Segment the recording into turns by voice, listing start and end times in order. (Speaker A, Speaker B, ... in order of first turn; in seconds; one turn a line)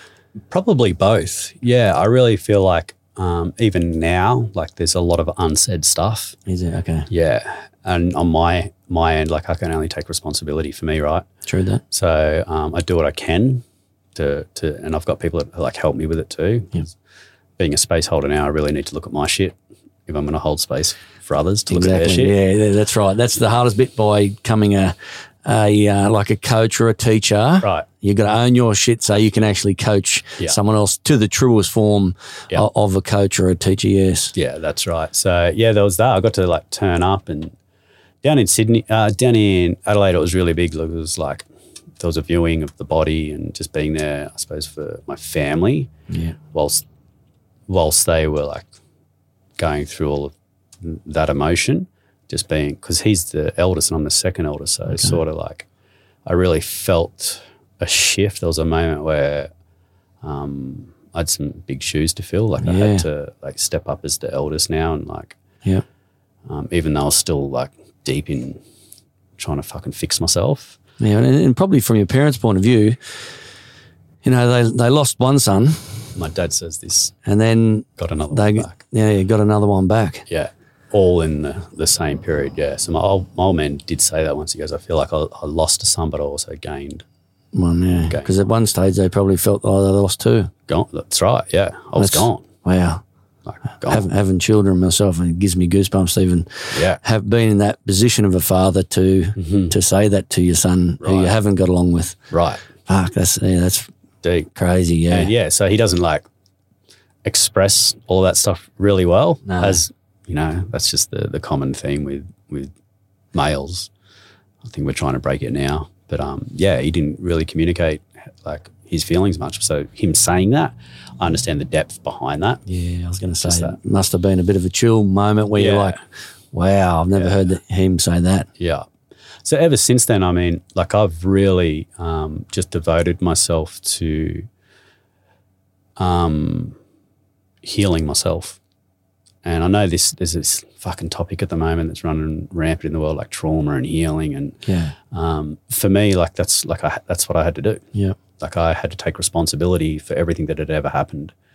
Speaker A: 0.5-6.3
Speaker B: 6.5-7.1
Speaker A: 7.1-11.2
Speaker B: 11.4-11.8
Speaker A: 11.9-13.6
Speaker A: 14.1-16.9
Speaker A: 17.6-19.6
Speaker A: 20.1-22.3
Speaker B: 21.7-34.3
Speaker A: 34.3-37.5
Speaker A: 38.2-41.5
Speaker A: 42.0-45.9
Speaker B: 46.1-46.4
Speaker A: 46.5-46.8
Speaker A: 47.7-48.7
Speaker A: 49.6-55.7
Speaker B: 54.9-55.2
Speaker A: 56.2-59.5
Speaker A: 60.2-65.4
Speaker B: 62.6-63.0
Speaker A: 66.5-68.6
Speaker A: 69.4-70.8
Speaker B: 71.0-73.0
Speaker B: 74.2-75.9
Speaker A: 76.2-77.1
Speaker B: 77.2-80.2
Speaker A: 78.0-78.7
Speaker A: 80.3-87.0
Speaker B: 87.5-90.5
Speaker A: 88.0-88.3
Speaker A: 90.7-92.5
Speaker B: 92.0-93.0
Speaker A: 93.5-94.1
Speaker B: 93.8-102.2
Speaker A: 96.7-97.0
Speaker A: 99.4-99.7
Speaker A: 101.0-101.3
Speaker A: 102.3-102.6
Speaker B: 102.8-103.9
Speaker A: 104.2-104.5
Speaker B: 104.5-105.3
Speaker A: 105.1-106.2
Speaker A: 107.2-112.7
Speaker B: 109.5-109.8
Speaker A: 113.3-113.9
Speaker A: 114.6-122.6
Speaker B: 122.7-126.0
Speaker A: 123.4-123.8
Speaker A: 125.5-126.0
Speaker B: 126.5-128.5
Speaker A: 128.6-128.9
Speaker A: 129.4-134.5
Speaker A: 136.0-136.8
Speaker A: 137.6-138.6
Speaker A: 139.4-147.8
Speaker B: 144.6-144.9
Speaker A: 148.4-151.3